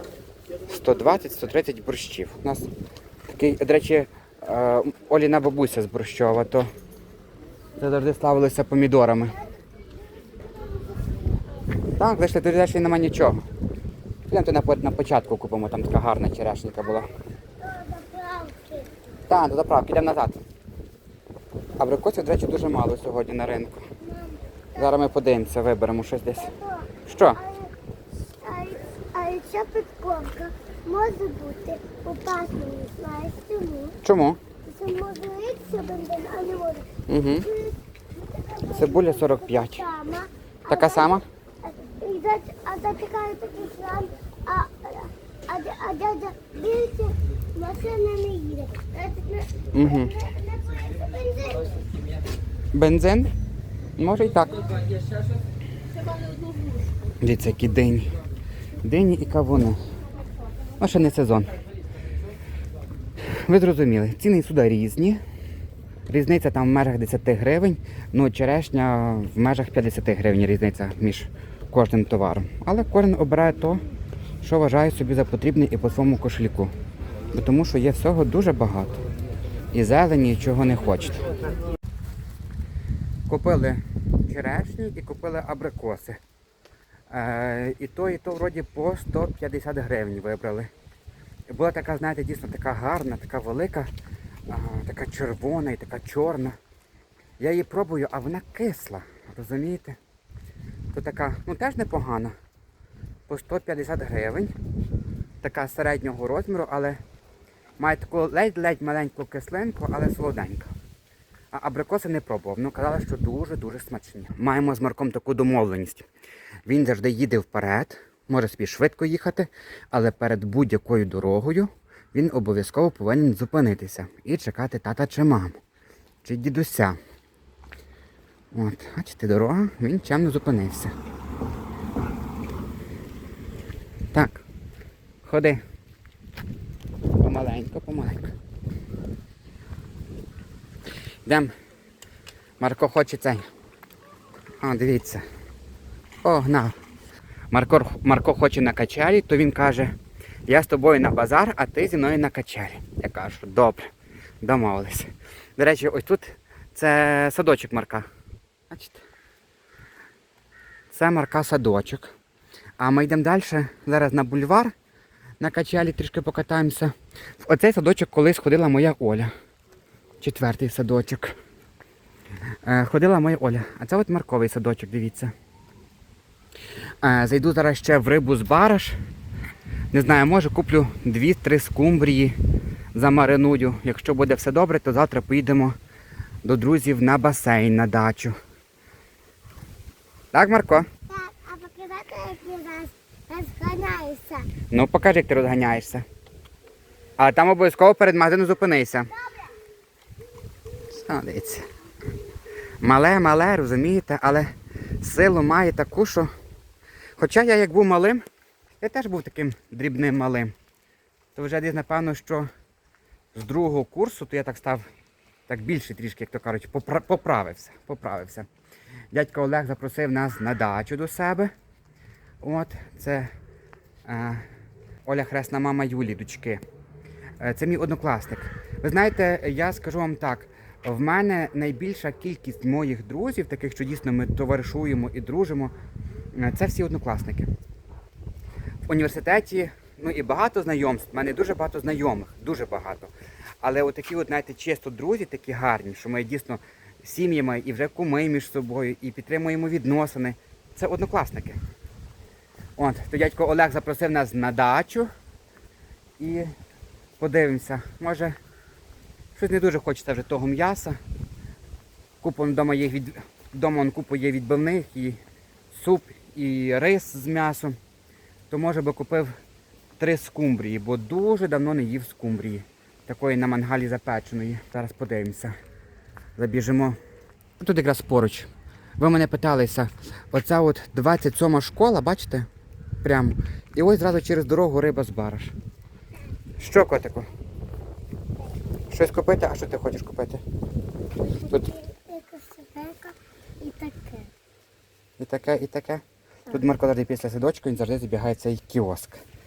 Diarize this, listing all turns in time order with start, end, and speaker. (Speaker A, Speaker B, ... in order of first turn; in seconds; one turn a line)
Speaker A: 0.7-2.7
Speaker A: 3.3-6.7
Speaker A: 7.8-9.3
Speaker B: 10.2-11.4
Speaker A: 12.0-13.4
Speaker A: 14.3-17.1
Speaker B: 17.6-18.9
Speaker A: 19.3-20.4
Speaker A: 21.8-23.8
Speaker B: 24.0-25.0
Speaker A: 24.8-26.5
Speaker B: 26.4-27.7
Speaker A: 27.1-27.4
Speaker B: 28.3-34.0
Speaker A: 34.0-34.4
Speaker B: 34.6-51.9
Speaker A: 37.1-37.5
Speaker A: 38.7-39.8
Speaker A: 40.7-41.2
Speaker A: 49.7-50.1
Speaker A: 52.7-53.3
Speaker A: 54.0-54.8
Speaker A: 57.2-58.1
Speaker A: 58.8-59.8
Speaker A: 60.8-61.5
Speaker A: 63.2-65.2
Speaker A: 66.1-73.8
Speaker A: 74.4-76.7
Speaker A: 77.3-79.0
Speaker A: 79.7-81.3
Speaker A: 83.3-86.2
Speaker A: 87.1-90.7
Speaker A: 91.5-93.9
Speaker A: 94.5-96.6
Speaker A: 97.4-100.0
Speaker A: 100.9-102.3
Speaker A: 103.3-104.5
Speaker A: 105.4-107.0
Speaker A: 107.8-110.7
Speaker A: 111.5-116.0
Speaker A: 116.7-125.6
Speaker A: 126.2-127.0
Speaker A: 128.5-130.9
Speaker A: 134.1-134.4
Speaker A: 135.2-135.6
Speaker A: 137.2-138.3
Speaker A: 141.2-141.5
Speaker A: 142.6-143.5
Speaker A: 144.6-145.2
Speaker A: 146.2-146.8
Speaker A: 147.5-149.9
Speaker A: 150.5-153.9
Speaker A: 154.4-158.1
Speaker A: 158.7-159.0
Speaker A: 160.9-162.1
Speaker A: 162.8-164.7
Speaker A: 165.4-169.3
Speaker A: 170.2-171.3
Speaker A: 172.6-175.3
Speaker A: 177.0-179.0
Speaker A: 179.9-182.4
Speaker A: 182.9-185.8
Speaker A: 186.4-188.3
Speaker A: 190.3-190.9
Speaker B: 191.1-194.5
Speaker A: 194.7-196.0
Speaker A: 197.2-199.1
Speaker B: 199.2-199.5
Speaker A: 200.9-201.7
Speaker A: 202.8-206.3
Speaker A: 207.2-208.2
Speaker A: 208.8-210.5
Speaker A: 211.3-212.5
Speaker A: 213.3-214.9
Speaker A: 215.5-218.5
Speaker A: 219.1-221.5
Speaker A: 222.4-223.3
Speaker A: 224.1-224.4
Speaker A: 225.1-226.6
Speaker A: 227.4-235.7
Speaker A: 236.3-237.5
Speaker A: 238.9-243.1
Speaker A: 243.6-251.6
Speaker A: 252.8-255.1
Speaker A: 256.2-256.5
Speaker A: 257.2-258.4
Speaker A: 259.4-261.0
Speaker A: 262.2-265.2
Speaker A: 265.7-267.8
Speaker A: 268.5-269.3
Speaker A: 270.0-275.5
Speaker A: 276.4-277.0
Speaker A: 277.6-282.5
Speaker A: 283.0-285.5
Speaker A: 286.6-287.3
Speaker A: 288.9-290.4
Speaker B: 291.2-294.3
Speaker A: 295.2-299.2